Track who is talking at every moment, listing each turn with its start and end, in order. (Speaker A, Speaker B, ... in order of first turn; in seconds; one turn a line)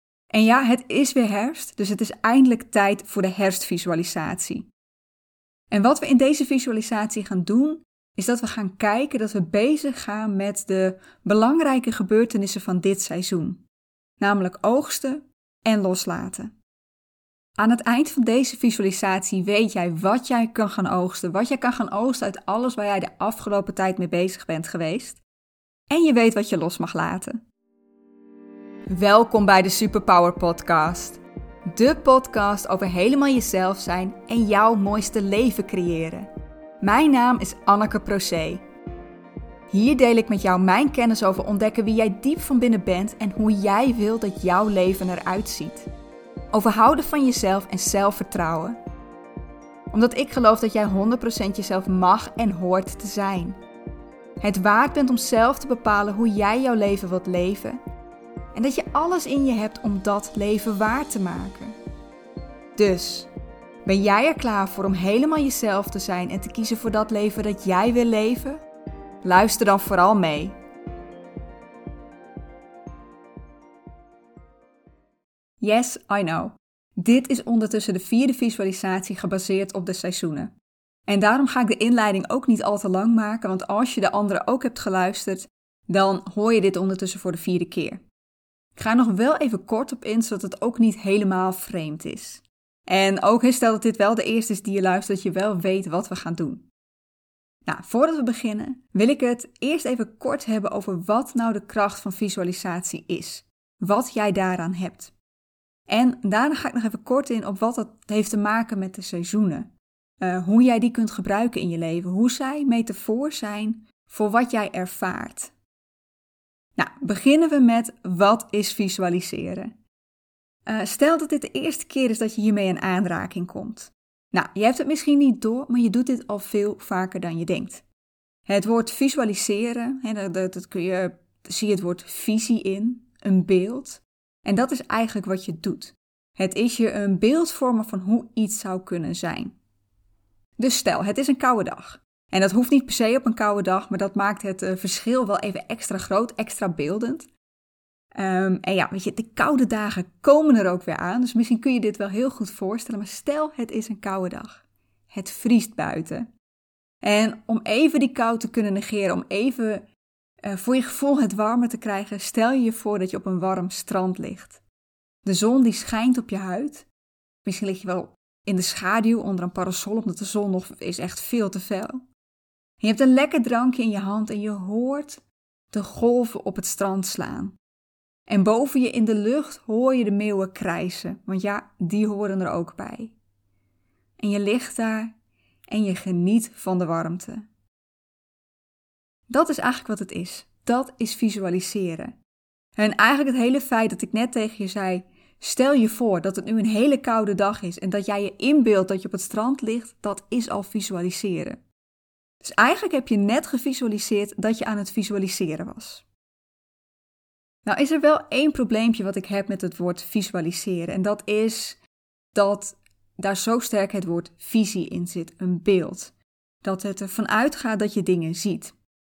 Speaker A: 0.3-4.7
Speaker A: 5.7-13.6
Speaker A: 14.2-16.5
Speaker A: 17.6-25.2
Speaker A: 25.9-27.4
Speaker A: 28.9-36.3
Speaker A: 36.8-38.6
Speaker A: 39.7-45.9
Speaker A: 46.5-48.8
Speaker A: 49.9-53.6
Speaker A: 54.4-57.8
Speaker A: 58.5-61.8
Speaker A: 62.8-63.3
Speaker A: 63.8-68.6
Speaker A: 69.2-70.6
Speaker A: 75.6-80.5
Speaker A: 81.1-88.0
Speaker A: 88.8-96.7
Speaker A: 97.7-105.1
Speaker A: 105.9-115.5
Speaker A: 116.8-119.7
Speaker A: 120.7-127.8
Speaker A: 128.5-139.6
Speaker A: 140.6-147.3
Speaker A: 148.1-156.3
Speaker A: 157.0-159.9
Speaker A: 160.4-164.6
Speaker A: 165.2-166.9
Speaker A: 167.4-172.1
Speaker A: 172.8-177.6
Speaker A: 178.3-183.1
Speaker A: 184.2-185.1
Speaker A: 185.7-187.4
Speaker A: 189.3-192.2
Speaker A: 192.8-201.6
Speaker A: 202.4-206.1
Speaker A: 207.7-211.8
Speaker A: 212.3-218.8